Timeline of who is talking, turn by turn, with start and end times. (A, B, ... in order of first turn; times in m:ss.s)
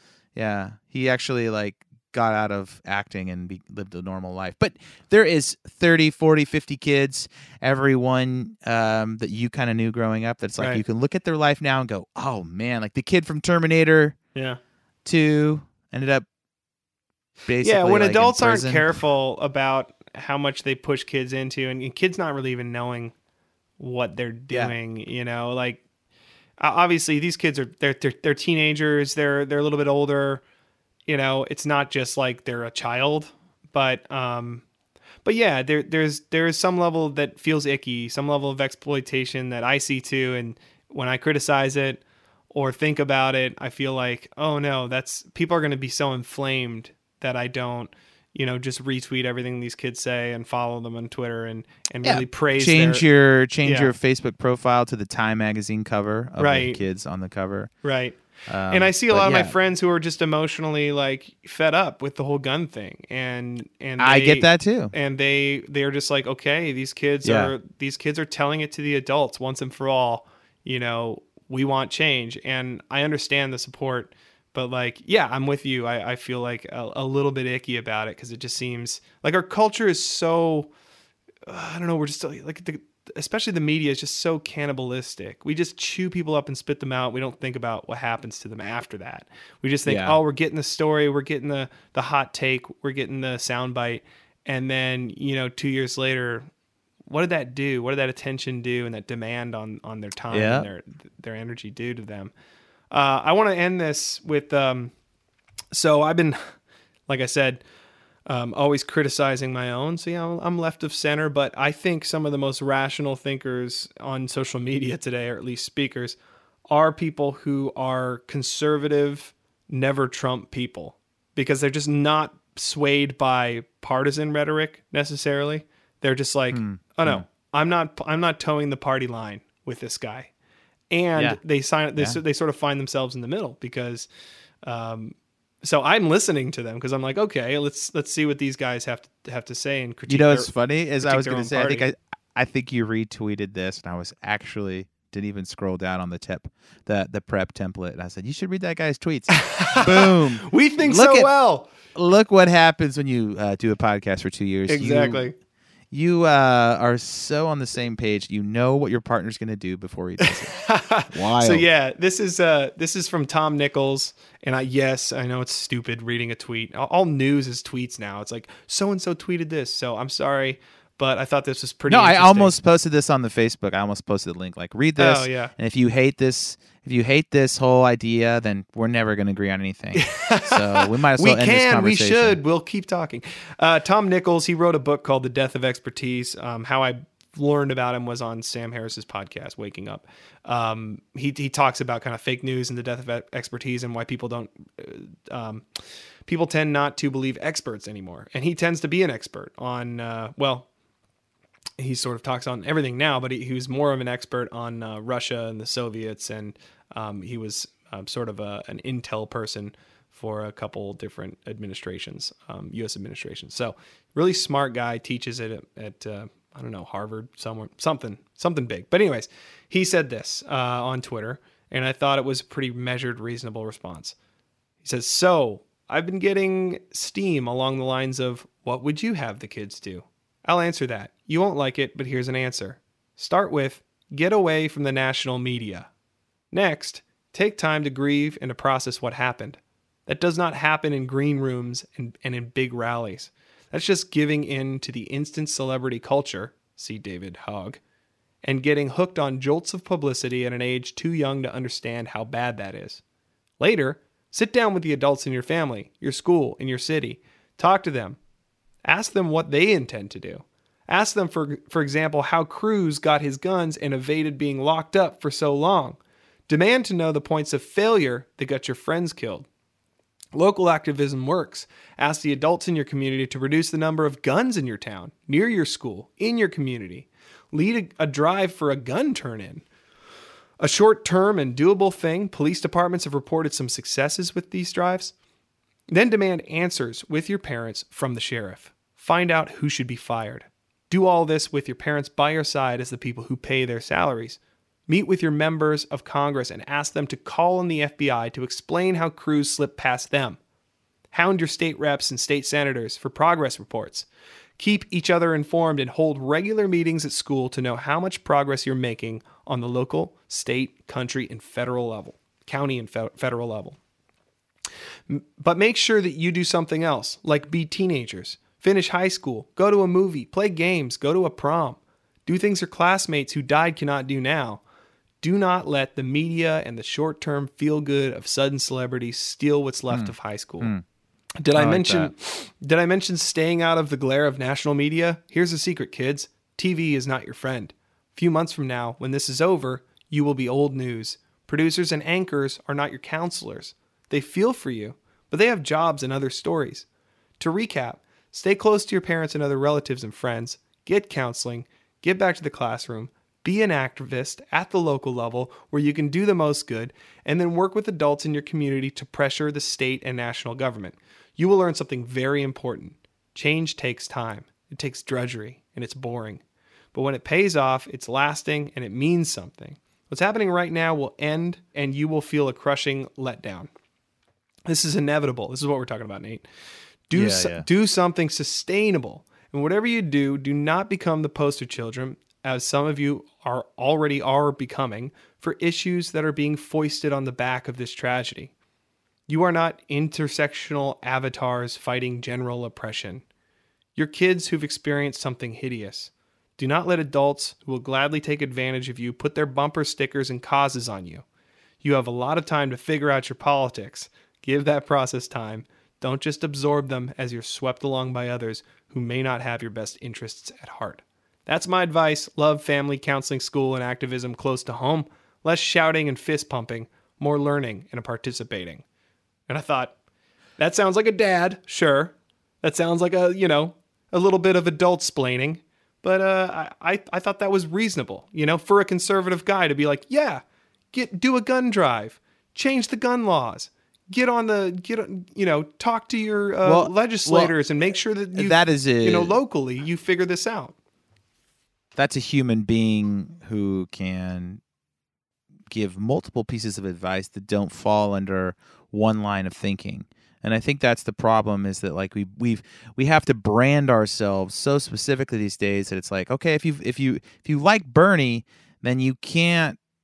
0:00.3-0:14.2 A
0:15.0-0:16.2 A
0:17.5-0:18.9 A
0:17.6-0:23.1 B
0:23.8-0:25.8 B
0:24.5-0:24.8 A
0:26.6-0:30.4 B
0:31.1-0:34.6 B
0:35.2-0:53.0 B
0:52.0-0:57.7 A
0:53.6-0:53.9 B
0:56.4-0:56.8 B
0:57.8-0:58.2 B
0:58.5-0:59.5 A
0:58.7-1:20.7 B
1:04.0-1:04.9 A
1:07.2-1:07.5 A
1:21.5-1:36.5 B
1:29.9-1:30.2 A
1:37.1-1:42.3 B
1:40.3-1:40.7 A
1:42.9-1:44.9 B
1:45.7-1:46.6 B
1:47.1-1:47.6 B
1:48.3-1:56.2 B
1:56.7-2:10.3 B
2:06.5-2:07.2 A
2:10.9-2:14.1 B
2:14.6-2:21.9 B
2:20.1-2:31.3 A
2:29.3-2:31.7 B
2:31.9-2:35.3 A
2:34.7-2:35.3 B
2:35.9-2:41.6 A
2:40.2-2:52.5 B
2:51.9-3:02.4 A
2:55.0-2:55.5 B
2:59.9-3:20.7 B
3:21.8-3:44.1 B
3:44.8-3:55.9 B
3:56.5-4:07.8 B
4:08.4-4:13.0 B
4:13.6-4:18.2 B
4:18.9-4:29.5 B
4:30.3-4:39.6 B
4:40.6-4:45.1 B
4:45.9-5:00.4 B
5:01.1-5:04.1 B
5:04.6-5:13.8 B
5:15.1-5:24.6 B
5:25.2-5:30.7 B
5:29.9-5:30.8 A
5:31.4-5:46.9 B
5:31.6-5:32.1 A
5:47.4-6:06.4 B
6:06.9-6:13.7 B
6:14.7-6:16.4 B
6:17.1-6:28.5 B
6:17.1-6:17.6 A
6:29.3-6:33.2 B
6:34.0-6:41.2 B
6:41.8-6:58.8 B
6:59.5-6:59.9 B
7:00.6-7:20.7 B
7:16.6-7:17.6 A
7:18.3-7:19.4 A
7:22.0-7:24.6 A
7:25.7-7:39.8 A